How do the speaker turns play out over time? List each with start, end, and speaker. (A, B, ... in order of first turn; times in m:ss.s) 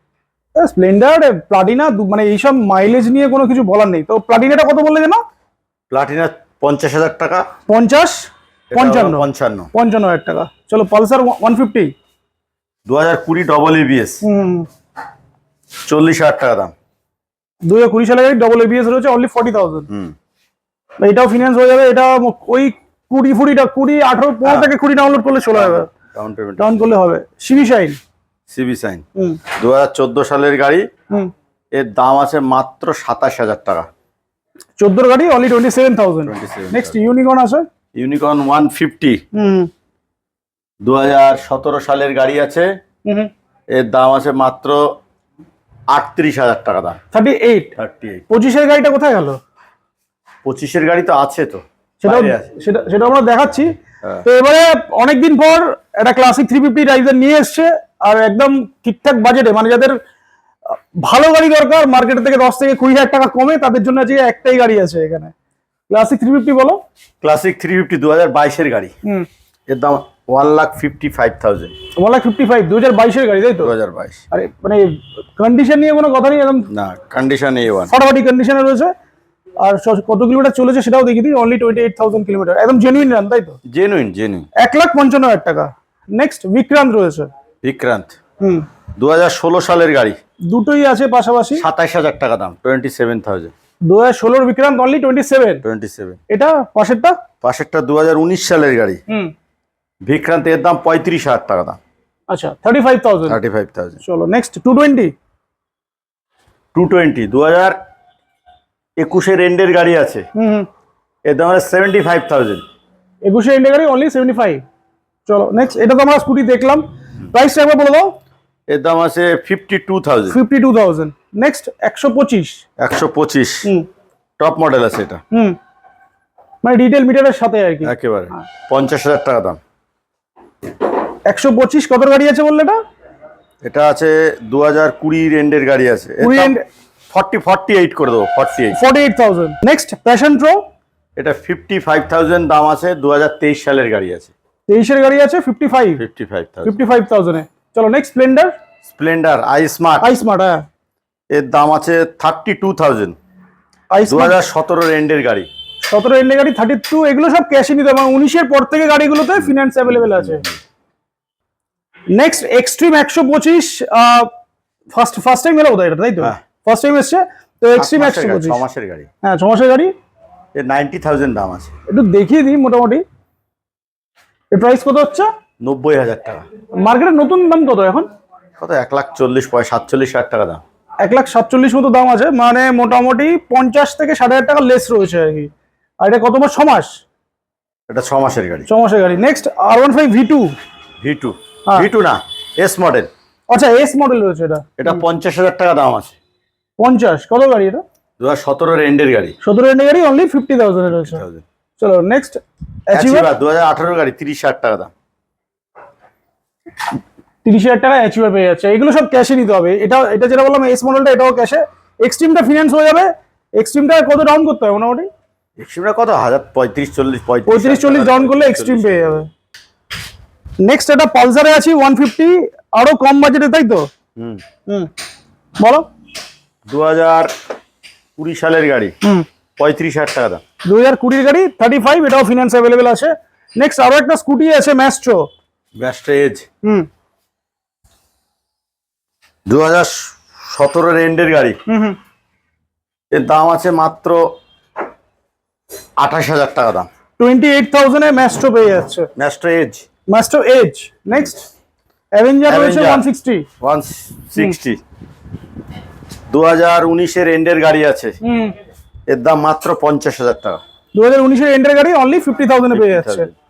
0:00.6-0:05.2 A
0:05.9-0:07.5 B
0:07.7-0:11.9 A
0:08.7-0:09.7 B
0:12.8-0:14.2 B
0:14.2-0:14.7 A
0:15.8-0:16.7 B
0:17.6-0:19.9 A
0:19.9-0:20.1 B
0:21.0-0:25.9 A
0:24.4-0:24.7 B
0:25.5-0:26.9 B
0:26.6-0:28.0 A
0:28.5-0:30.9 B
0:29.2-0:29.4 A
0:31.7-0:33.9 B
0:34.8-0:37.6 A
0:36.2-0:37.0 B
0:37.9-0:39.2 B
0:39.3-0:39.7 A
0:40.8-0:42.7 B
0:43.7-0:44.8 B
0:45.9-0:47.0 B
0:47.1-0:47.7 A
0:47.8-0:48.2 B
0:48.3-0:49.4 A
0:50.4-0:52.5 B
0:52.0-0:53.7 A
0:54.2-1:00.0 A
1:00.7-1:05.3 A
1:05.9-1:06.8 A
1:07.2-1:08.9 B
1:09.7-1:11.7 B
1:12.0-1:13.7 A
1:13.6-1:14.2 B
1:14.3-1:16.7 A
1:16.7-1:17.9 B
1:17.9-1:18.9 A
1:19.6-1:23.6 A
1:23.7-1:24.5 B
1:24.6-1:27.3 A
1:27.6-1:28.1 B
1:28.4-1:28.6 A
1:29.0-1:30.2 B
1:30.5-1:31.6 A
1:31.6-1:33.5 B
1:33.9-1:35.6 A
1:35.6-1:36.2 B
1:36.3-1:37.2 A
1:37.4-1:39.0 B
1:40.0-1:41.8 B
1:42.3-1:43.4 A
1:43.3-1:44.0 B
1:44.0-1:45.1 A
1:46.7-1:47.8 B
1:49.0-1:50.2 B
1:50.3-1:50.7 A
1:51.2-1:52.6 B
1:53.2-1:54.6 A
1:55.2-1:58.2 A
1:58.7-2:00.4 B
2:00.3-2:02.6 A
2:02.8-2:03.7 B
2:04.4-2:05.2 B
2:05.3-2:05.6 A
2:06.6-2:08.4 A
2:07.8-2:09.6 B
2:11.3-2:12.8 A
2:13.6-2:16.5 B
2:16.2-2:16.6 A
2:17.1-2:18.8 B
2:18.7-2:20.6 A
2:21.2-2:24.3 B
2:24.7-2:26.0 A
2:26.0-2:26.7 B
2:26.6-2:28.5 A
2:28.8-2:30.1 B
2:30.0-2:30.6 A
2:31.3-2:33.2 B
2:33.9-2:34.4 A
2:34.0-2:35.5 B
2:35.8-2:40.4 A
2:40.2-2:40.4 B
2:42.1-2:44.3 A
2:44.9-2:48.6 A
2:47.8-2:49.1 B
2:49.2-2:49.9 A
2:50.5-2:51.7 B
2:51.9-2:53.0 A
2:54.5-2:55.3 A
2:55.6-2:56.4 B
2:56.8-2:58.1 A
2:58.6-3:00.6 B
3:01.0-3:05.5 A
3:06.0-3:07.0 A
3:07.9-3:08.7 B
3:08.7-3:10.5 A
3:11.0-3:13.1 B
3:13.5-3:14.7 A
3:14.8-3:16.1 B
3:16.8-3:17.8 A
3:18.2-3:19.4 B
3:19.4-3:21.2 A
3:20.9-3:21.4 B
3:21.8-3:23.3 A
3:22.9-3:24.9 B
3:27.4-3:35.1 A
3:35.6-3:39.2 B
3:37.5-3:39.3 A
3:40.6-3:43.9 A
3:44.2-3:44.4 B
3:45.6-3:45.8 A
3:46.7-3:47.3 B
3:48.2-3:48.9 B
3:49.6-3:50.4 B
3:50.7-3:55.3 A
3:55.8-3:56.4 B
3:59.4-4:01.6 B
4:01.7-4:02.0 A
4:03.1-4:04.2 B
4:06.0-4:06.9 B
4:07.2-4:09.1 A
4:09.2-4:09.8 B
4:10.1-4:11.5 A
4:12.2-4:13.4 A
4:12.5-4:13.0 B
4:13.6-4:14.8 B
4:16.3-4:18.2 B
4:18.2-4:18.6 A
4:19.1-4:20.6 B
4:20.9-4:23.3 A
4:22.7-4:23.3 B